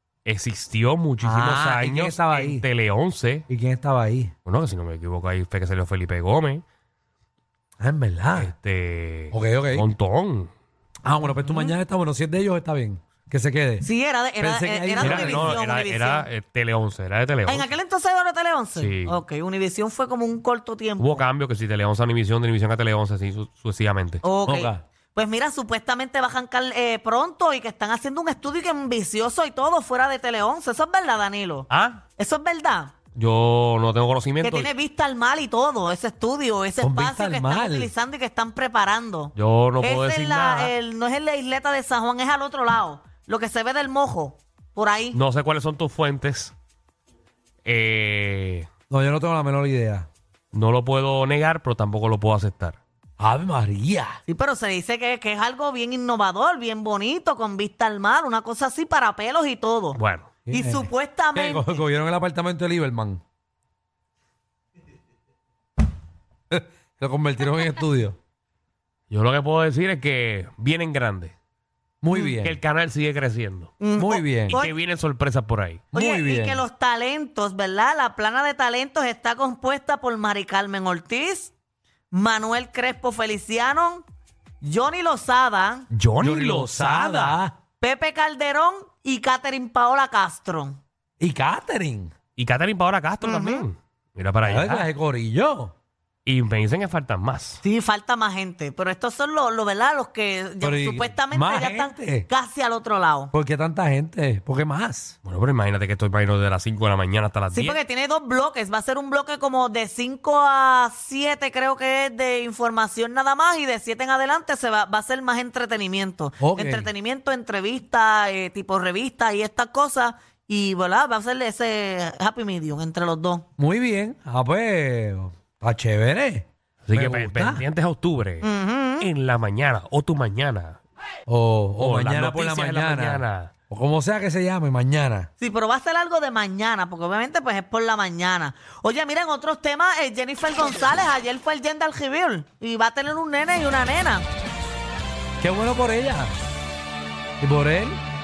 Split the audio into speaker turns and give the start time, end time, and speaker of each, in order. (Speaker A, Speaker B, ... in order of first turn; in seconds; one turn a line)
Speaker A: 0.2-3.4
Speaker B: 1.2-2.6
Speaker B: 3.5-4.3
Speaker A: 4.5-6.6
Speaker B: 7.8-8.5
Speaker A: 8.3-10.5
Speaker B: 9.3-9.9
Speaker B: 11.0-15.6
Speaker C: 11.4-11.7
Speaker C: 13.8-16.3
Speaker A: 15.0-17.7
Speaker C: 17.4-21.2
Speaker A: 18.8-19.2
Speaker A: 21.0-24.2
Speaker C: 24.2-32.9
Speaker B: 24.4-24.8
Speaker A: 31.7-32.0
Speaker A: 33.1-34.7
Speaker C: 34.4-45.2
Speaker B: 36.8-37.9
Speaker A: 39.3-40.7
Speaker A: 45.1-46.5
Speaker A: 47.6-48.7
Speaker B: 48.9-50.1
Speaker A: 50.5-52.8
Speaker B: 53.2-54.2
Speaker C: 54.3-60.0
Speaker A: 59.9-60.4
Speaker B: 60.5-63.2
Speaker C: 60.5-61.8
Speaker B: 66.5-68.2
Speaker A: 69.1-71.3
Speaker B: 72.0-72.6
Speaker A: 72.4-73.7
Speaker C: 73.8-74.8
Speaker B: 74.0-74.6
Speaker A: 74.5-75.8
Speaker B: 75.9-76.6
Speaker C: 75.9-81.5
Speaker C: 82.1-84.0
Speaker C: 84.6-85.8
Speaker A: 85.9-87.4
Speaker B: 86.2-87.5
Speaker C: 87.8-90.8
Speaker B: 91.2-92.1
Speaker A: 92.3-94.9
Speaker C: 93.2-93.6
Speaker B: 94.4-95.7
Speaker A: 96.2-97.6
Speaker C: 97.6-103.3
Speaker B: 100.6-102.3
Speaker B: 103.3-105.1
Speaker A: 105.2-107.8
Speaker C: 107.5-123.4
Speaker B: 116.4-116.9
Speaker B: 123.6-127.6
Speaker A: 126.8-128.5
Speaker C: 128.4-129.1
Speaker A: 129.0-130.8
Speaker B: 131.3-135.3
Speaker A: 131.8-133.5
Speaker C: 135.4-144.2
Speaker B: 145.4-146.3
Speaker B: 147.4-148.0